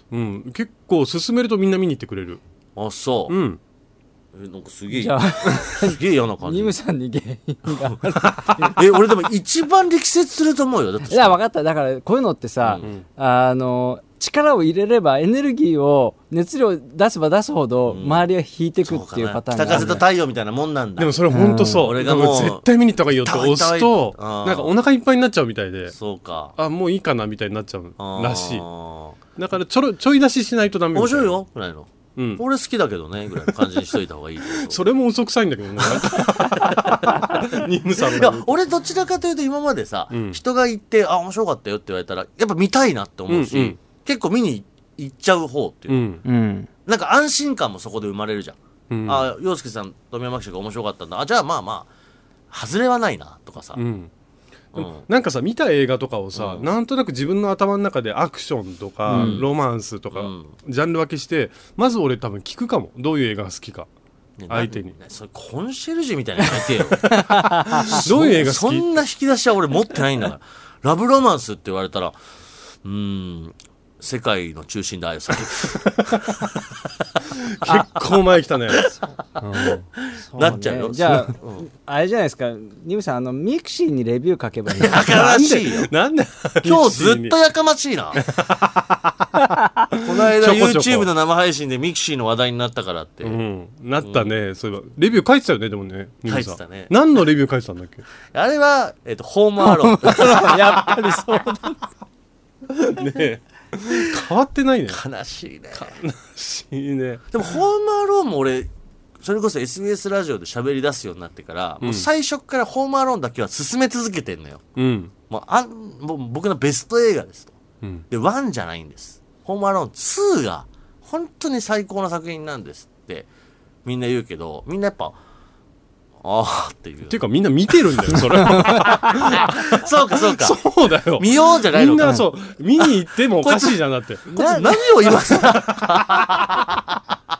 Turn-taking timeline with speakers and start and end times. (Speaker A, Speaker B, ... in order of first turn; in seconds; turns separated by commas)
Speaker A: 0.1-2.4, Speaker B: 2.8-3.4, Speaker A: 3.3-3.6, Speaker B: 4.3-6.8, Speaker C: 4.9-8.8, Speaker B: 8.4-11.4, Speaker C: 11.1-20.0, Speaker B: 12.6-12.9, Speaker B: 17.9-18.2, Speaker B: 18.9-21.2, Speaker A: 19.7-20.0, Speaker A: 21.0-26.0, Speaker C: 21.3-21.9, Speaker B: 21.8-22.6, Speaker B: 23.2-24.7, Speaker B: 25.9-26.5, Speaker A: 26.6-28.6, Speaker B: 28.0-29.2, Speaker A: 29.4-31.4, Speaker B: 30.9-34.8, Speaker A: 32.1-32.4, Speaker A: 34.6-38.5, Speaker B: 35.8-46.1, Speaker A: 40.1-40.4, Speaker A: 43.3-43.8, Speaker A: 45.9-46.2, Speaker C: 46.2-46.7, Speaker B: 46.9-51.9, Speaker A: 48.9-49.3, Speaker B: 52.5-53.8, Speaker A: 53.8-54.1, Speaker A: 54.7-63.9, Speaker B: 54.8-55.0, Speaker B: 56.3-56.7, Speaker C: 59.1-59.4, Speaker B: 59.1-59.5, Speaker B: 60.1-60.5, Speaker B: 64.4-72.2, Speaker A: 64.5-65.0, Speaker C: 67.1-68.0, Speaker A: 67.8-69.0, Speaker B: 72.8-76.5, Speaker A: 77.5-78.9, Speaker B: 77.6-78.0, Speaker A: 79.4-79.8, Speaker B: 79.6-81.7, Speaker C: 80.2-85.3, Speaker B: 84.8-85.9, Speaker A: 85.0-87.3, Speaker B: 86.6-88.2, Speaker A: 88.2-89.3, Speaker B: 90.0-93.4, Speaker A: 90.2-91.1, Speaker A: 93.2-98.0, Speaker B: 94.0-94.3, Speaker B: 96.3-96.9, Speaker B: 98.3-101.2, Speaker C: 99.6-101.8, Speaker A: 102.8-105.0, Speaker B: 104.9-106.0, Speaker A: 105.7-107.4, Speaker B: 107.3-114.6, Speaker A: 111.8-112.1, Speaker A: 114.8-115.1, Speaker B: 115.3-117.5, Speaker B: 118.1-123.3, Speaker B: 123.8-125.2, Speaker B: 126.2-127.2, Speaker A: 127.1-134.3, Speaker C: 128.4-129.1, Speaker B: 128.8-130.6, Speaker B: 131.2-132.2, Speaker B: 133.4-133.8, Speaker B: 134.3-137.0, Speaker C: 134.3-135.2, Speaker A: 135.1-136.7